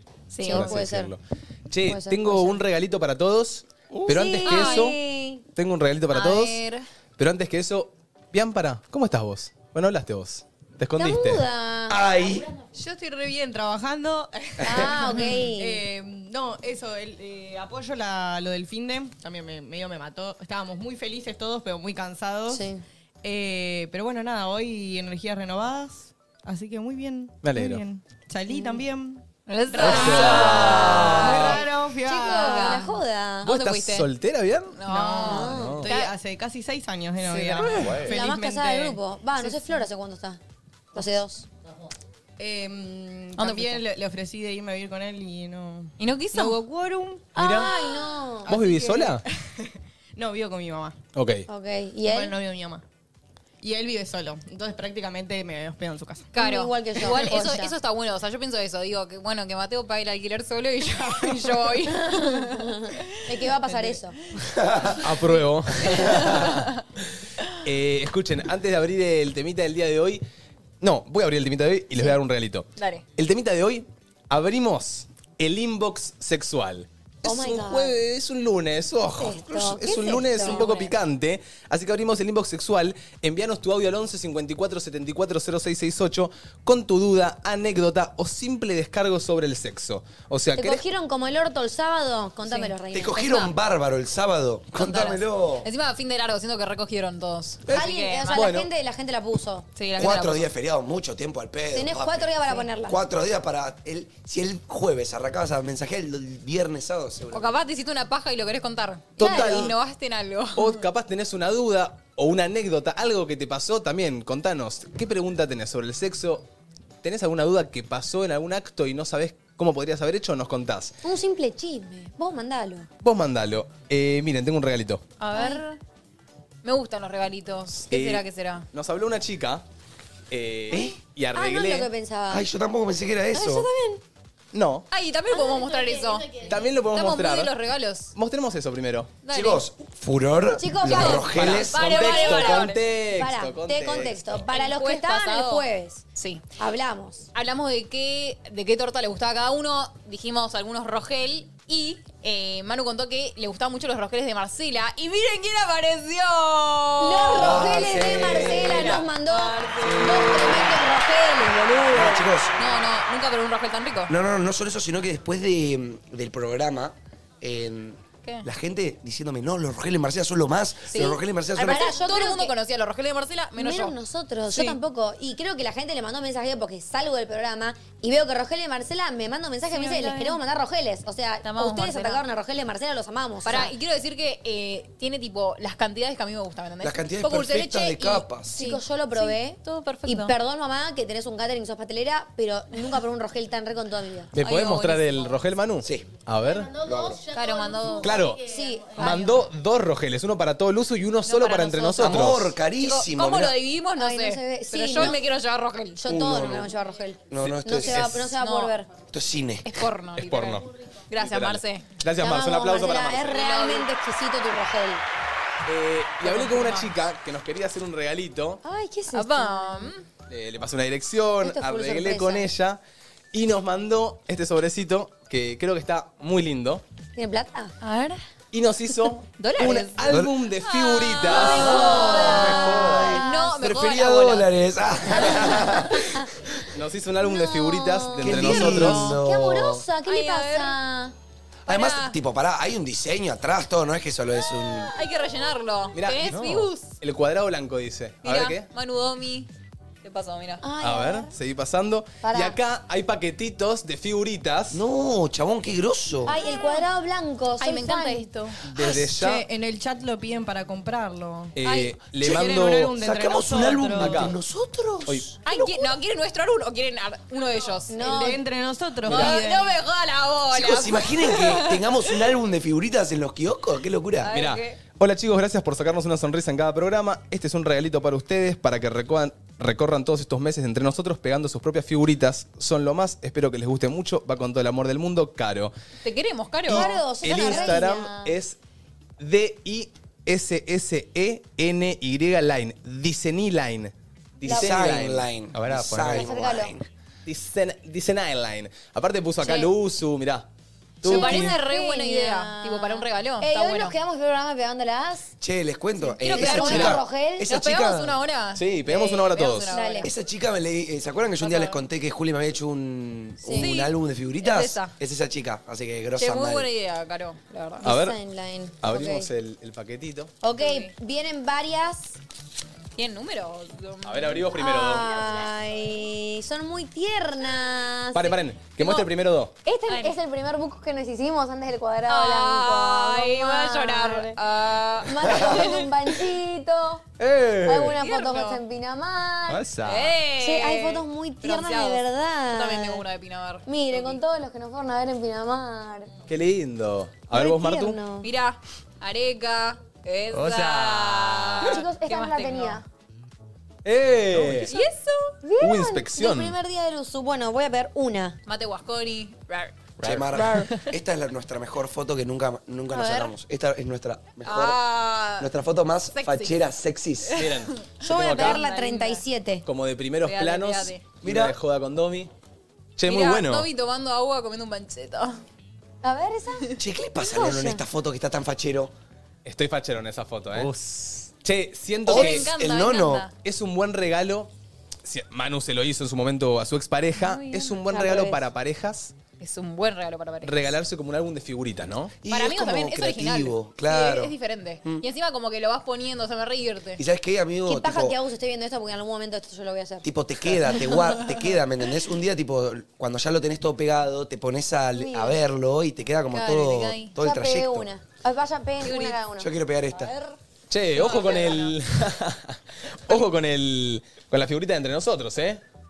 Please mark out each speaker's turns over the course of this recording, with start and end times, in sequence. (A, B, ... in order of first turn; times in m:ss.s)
0:00.3-0:00.8 A
0:00.4-0:01.1 B
0:00.4-0:05.0 C
0:01.8-0:02.6 B
0:04.0-0:05.4 B
0:04.4-0:04.8 A
0:05.5-0:06.6 C
0:06.1-0:06.8 A
0:07.2-0:11.4 C
0:11.0-0:12.2 B
0:11.9-0:12.5 D
0:12.7-0:22.6 E
0:14.6-0:15.8 B
0:14.6-0:14.9 D
0:15.1-0:15.4 A
0:22.5-0:22.8 B
0:23.2-0:32.8 E
0:27.4-0:27.8 C
0:29.5-0:34.1 A
0:29.8-0:31.6 C
0:31.1-0:33.5 B
0:33.4-0:34.8 C
0:34.8-0:36.1 A
0:34.8-0:39.0 E
0:35.2-0:35.8 B
0:35.5-0:35.9 C
0:37.2-0:37.7 A
0:38.0-0:40.4 B
0:40.9-0:41.4 B
0:42.4-0:47.3 E
0:43.4-0:43.8 A
0:46.0-0:46.6 A
0:47.3-0:48.6 B
0:47.4-0:47.7 C
0:48.4-0:51.0 E
0:48.5-0:49.2 C
0:51.1-0:51.4 C
0:51.5-0:52.4 B
0:52.0-0:52.8 E
0:53.6-0:56.3 E
0:56.3-1:03.0 A
0:56.3-0:57.7 B
1:01.9-1:04.2 B
1:03.7-1:03.9 E
1:04.6-1:05.0 D
1:04.9-1:06.6 C
1:05.8-1:06.8 A
1:07.6-1:10.2 C
1:10.8-1:30.8 C
1:12.8-1:13.0 A
1:17.2-1:18.0 B
1:19.2-1:20.6 B
1:20.4-1:20.9 A
1:30.6-1:33.5 B
1:32.5-1:32.7 A
1:32.9-1:35.6 D
1:34.8-1:38.5 A
1:37.7-1:39.7 B
1:38.3-1:38.7 C
1:39.8-1:40.5 A
1:40.0-1:47.6 D
1:41.7-1:43.0 B
1:47.3-1:50.8 A
1:49.2-1:49.7 B
1:49.2-1:49.7 C
1:50.6-1:56.4 C
1:57.0-2:01.0 C
2:01.0-2:02.9 B
2:03.0-2:05.0 C
2:05.2-2:05.8 A
2:05.3-2:05.6 B
2:06.6-2:08.6 A
2:07.8-2:09.6 C
2:10.3-2:11.9 C
2:10.7-2:11.0 D
2:11.3-2:12.5 B
2:12.3-2:13.7 D
2:13.3-2:13.9 B
2:13.4-2:13.9 A
2:14.5-2:14.8 C
2:14.9-2:18.1 A
2:15.3-2:16.8 F
2:16.5-2:17.5 C
2:18.1-2:19.1 C
2:19.2-2:19.6 A
2:19.3-2:22.6 D
2:20.6-2:21.4 B
2:20.8-2:22.8 A
2:21.0-2:24.3 C
2:23.1-2:26.0 B
2:24.5-2:26.4 A
2:26.6-2:27.3 B
2:27.3-2:40.7 A
2:37.0-2:42.3 B
2:37.4-2:39.1 D
2:39.8-2:40.5 D
2:41.9-2:42.5 D
2:41.9-2:44.1 A
2:44.1-2:52.0 D
2:50.9-2:53.9 A
2:50.9-2:52.5 B
2:53.6-3:03.7 B
2:54.5-2:54.8 A
2:59.7-3:00.4 A
3:01.4-3:02.2 A
3:03.4-3:10.3 A
3:06.8-3:08.6 D
3:08.5-3:14.3 B
3:14.3-3:16.7 C
3:14.4-3:15.4 A
3:15.8-3:16.1 D
3:16.4-3:19.2 F
3:16.8-3:17.2 D
3:17.3-3:18.2 A
3:18.0-3:18.4 C
3:18.4-3:19.1 B
3:19.0-3:19.4 A
3:19.0-3:22.5 C
3:21.2-3:26.0 A
3:22.0-3:23.6 D
3:24.0-3:25.2 B
3:25.9-3:28.9 B
3:26.0-3:26.7 D
3:27.3-3:28.1 D
3:27.4-3:28.2 C
3:28.0-3:28.7 A
3:29.1-3:29.6 D
3:29.6-3:31.8 A
3:30.2-3:33.3 C
3:32.2-3:35.0 B
3:33.1-3:33.9 A
3:35.6-3:38.6 C
3:36.2-3:36.9 A
3:38.6-3:39.9 B
3:39.1-3:40.0 A
3:40.3-3:42.8 C
3:41.4-3:42.5 B
3:43.3-3:46.8 C
3:47.2-3:47.7 B
3:47.8-3:48.2 A
3:48.5-3:53.2 C
3:49.4-3:50.0 A
3:50.6-3:54.5 A
3:51.3-3:53.4 B
3:51.4-3:56.2 D
3:55.1-3:56.2 B
3:56.7-3:59.2 C
3:57.2-4:01.1 B
3:58.2-3:59.8 D
4:00.0-4:00.8 A
4:01.7-4:04.9 D
4:01.7-4:02.2 A
4:04.4-4:07.0 A
4:05.9-4:08.6 C
4:08.2-4:09.5 A
4:10.0-4:10.6 A
4:10.6-4:11.3 B
4:10.8-4:14.8 C
4:12.2-4:12.6 B
4:14.7-4:16.4 D
4:16.2-4:18.3 B
4:16.4-4:16.8 A
4:17.6-4:18.6 A
4:18.7-4:19.4 C
4:18.8-4:21.6 E
4:21.6-4:23.0 C
4:21.6-4:21.9 A
4:22.2-4:25.9 D
4:22.2-4:24.3 E
4:23.9-4:24.3 C
4:25.4-4:28.3 A
4:27.9-4:28.4 B
4:28.0-4:29.7 E
4:29.0-4:31.9 A
4:29.0-4:29.4 C
4:30.5-4:34.3 D
4:34.2-4:34.8 A
4:34.3-4:45.7 C
4:46.0-4:47.8 A
4:46.7-4:48.3 B
4:46.7-4:48.6 C
4:49.2-4:55.3 C
4:54.4-4:54.9 B
4:54.4-4:56.8 D
4:55.5-4:56.3 G
4:56.1-4:56.8 B
4:57.2-5:00.5 C
4:59.4-4:59.7 B
5:01.0-5:01.6 C
5:01.0-5:03.9 A
5:01.0-5:05.3 B
5:05.4-5:08.2 D
5:06.2-5:10.1 A
5:06.2-5:07.6 B
5:06.7-5:07.0 C
5:08.5-5:09.8 C
5:09.6-5:10.1 B
5:10.0-5:16.7 D
5:11.4-5:11.8 A
5:13.4-5:13.7 B
5:13.5-5:14.9 A
5:16.2-5:17.8 A
5:17.8-5:19.3 B
5:17.8-5:18.2 C
5:18.8-5:20.3 C
5:20.4-5:22.2 B
5:20.6-5:20.9 A
5:23.0-5:24.4 A
5:24.0-5:25.1 C
5:24.5-5:29.0 B
5:28.1-5:29.5 C
5:29.6-5:34.4 B
5:29.9-5:30.1 A
5:32.1-5:35.9 A
5:35.0-5:37.0 B
5:37.2-5:38.0 C
5:37.6-5:39.7 B
5:38.0-5:38.6 A
5:39.5-5:40.2 G
5:39.8-5:44.2 A
5:40.4-5:43.0 B
5:43.6-5:46.1 B
5:46.3-5:48.0 C
5:47.3-5:48.3 B
5:48.2-5:52.8 A
5:50.4-5:50.9 G
5:50.4-5:51.4 C
5:51.6-5:52.8 B
5:53.8-5:54.7 C
5:54.3-5:54.6 G
5:54.7-5:55.3 A
5:55.4-5:58.4 B
5:55.6-5:56.6 C
5:58.4-5:59.8 A
6:00.0-6:00.7 G
6:00.0-6:04.8 D
6:02.9-6:03.3 A
6:04.4-6:05.5 A
6:05.4-6:07.4 D
6:06.1-6:06.6 A
6:07.2-6:09.2 A
6:07.4-6:08.6 C
6:08.0-6:09.6 B
6:09.6-6:12.3 C
6:10.2-6:11.0 A
6:11.2-6:11.5 D
6:13.0-6:13.7 C
6:13.1-6:15.4 A
6:16.0-6:17.8 B
6:16.8-6:18.9 D
6:19.4-6:22.5 C
6:22.1-6:23.3 D
6:22.1-6:23.3 A
6:23.4-6:24.5 C
6:25.0-6:29.1 C
6:27.2-6:27.8 A
6:27.8-6:28.4 B
6:29.4-6:30.7 A
6:30.4-6:32.2 C
6:32.2-6:34.3 D
6:32.3-6:37.0 A
6:37.0-6:38.2 D
6:37.6-6:40.0 B
6:40.0-6:47.9 D
6:45.0-6:45.4 B
6:46.3-6:47.1 A
6:47.2-6:49.5 B
6:48.8-6:49.2 A
6:49.4-6:50.1 D
6:50.7-6:55.6 C
6:50.9-6:51.8 A